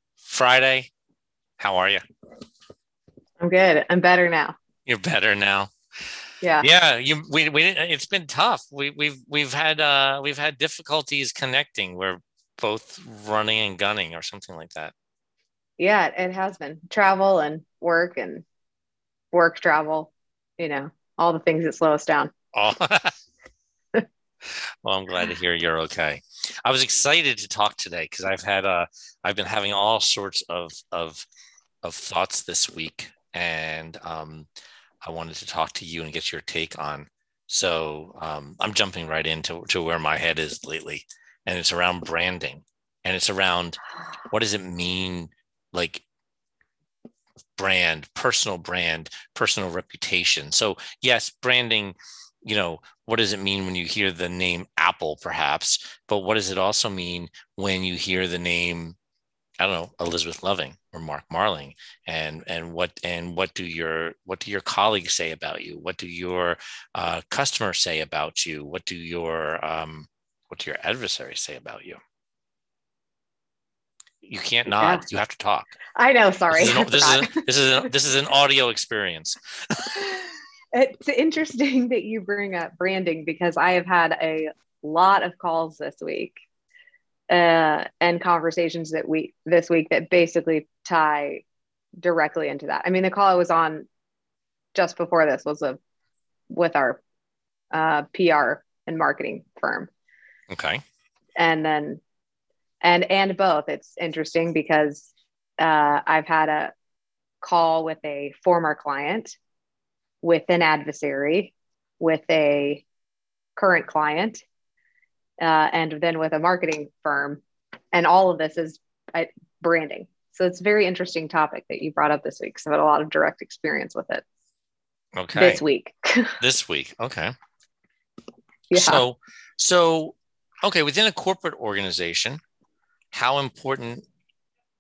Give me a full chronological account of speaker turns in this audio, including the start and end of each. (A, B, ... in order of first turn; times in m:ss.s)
0:00.2-0:00.9 A
0:01.6-0:02.0 A
0:03.4-0:04.6 B
0:04.9-0:05.7 A
0:06.6-0:14.9 A
0:15.8-0:18.4 B
0:19.3-0:22.3 B
0:22.5-0:23.2 A
0:24.5-0:31.3 A
0:31.8-0:34.5 A
0:35.0-0:46.0 A
0:47.6-0:59.0 A
0:59.6-1:12.0 A
1:14.2-1:15.8 A
1:14.8-1:15.0 B
1:16.0-1:17.4 B
1:16.5-1:20.1 A
1:20.7-1:26.4 B
1:27.3-1:31.4 B
1:32.0-1:33.9 B
1:34.7-1:35.8 B
1:36.5-1:37.0 B
1:37.7-1:39.9 B
1:40.5-1:40.8 A
1:41.4-1:42.0 B
1:42.8-1:46.7 B
1:47.4-1:49.4 B
1:50.2-1:52.8 B
1:53.6-1:54.4 B
1:55.4-1:57.4 B
1:57.9-2:04.2 B
2:05.2-2:05.6 A
2:05.4-2:06.4 B
2:06.4-2:07.3 A
2:08.7-2:09.0 B
2:08.7-2:12.4 A
2:13.1-2:14.1 A